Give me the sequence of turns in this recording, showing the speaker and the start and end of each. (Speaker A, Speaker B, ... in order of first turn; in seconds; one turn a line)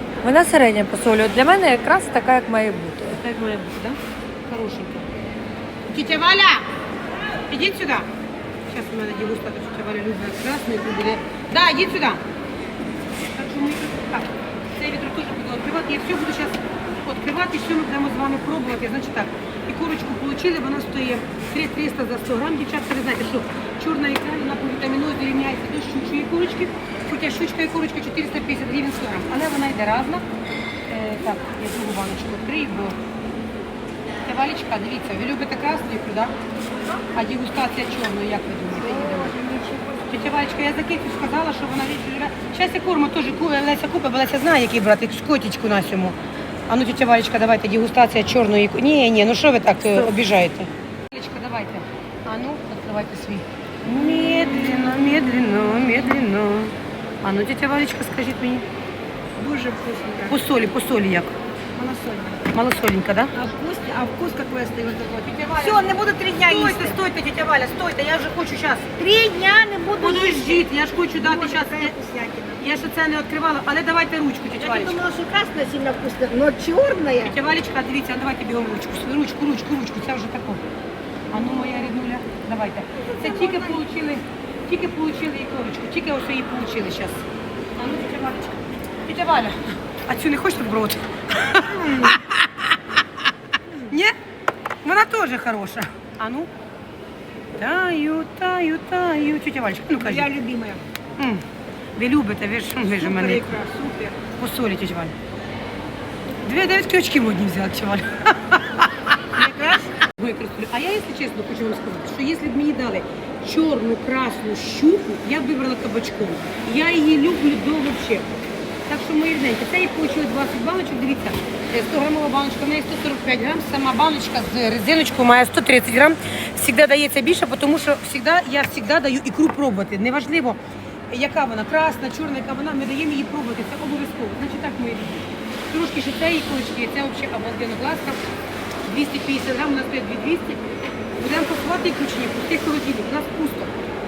Speaker A: 0.2-3.2
Speaker B: 3.2-5.1
Speaker B: 5.9-6.7
Speaker B: 7.5-8.1
Speaker B: 8.7-12.2
Speaker B: 13.2-30.2
Speaker B: 30.9-33.0
Speaker B: 34.2-36.3
Speaker B: 37.1-39.3
Speaker A: 38.8-40.1
Speaker B: 40.1-46.2
Speaker B: 46.7-58.6
Speaker C: 59.3-60.4
Speaker B: 60.3-61.3
Speaker C: 61.7-62.4
Speaker B: 62.5-63.3
Speaker C: 63.3-67.0
Speaker B: 65.2-68.9
Speaker C: 69.0-72.6
Speaker B: 70.0-71.9
Speaker B: 72.6-75.0
Speaker C: 74.5-77.3
Speaker B: 77.2-80.6
Speaker B: 81.3-87.2
Speaker C: 81.3-81.9
Speaker C: 83.0-83.8
Speaker C: 87.8-88.7
Speaker B: 89.0-92.8
Speaker C: 91.8-92.1
Speaker B: 93.9-94.1
Speaker B: 94.8-96.5
Speaker B: 97.6-100.3
Speaker C: 100.0-100.8
Speaker B: 101.2-101.4
Speaker B: 102.0-103.4
Speaker C: 102.8-104.2
Speaker B: 104.4-105.1
Speaker B: 106.4-108.9
Speaker C: 109.3-110.0
Speaker B: 110.1-118.3
Speaker B: 118.9-130.6
Speaker B: 131.1-138.2
Speaker B: 138.8-140.6
Speaker B: 141.2-143.7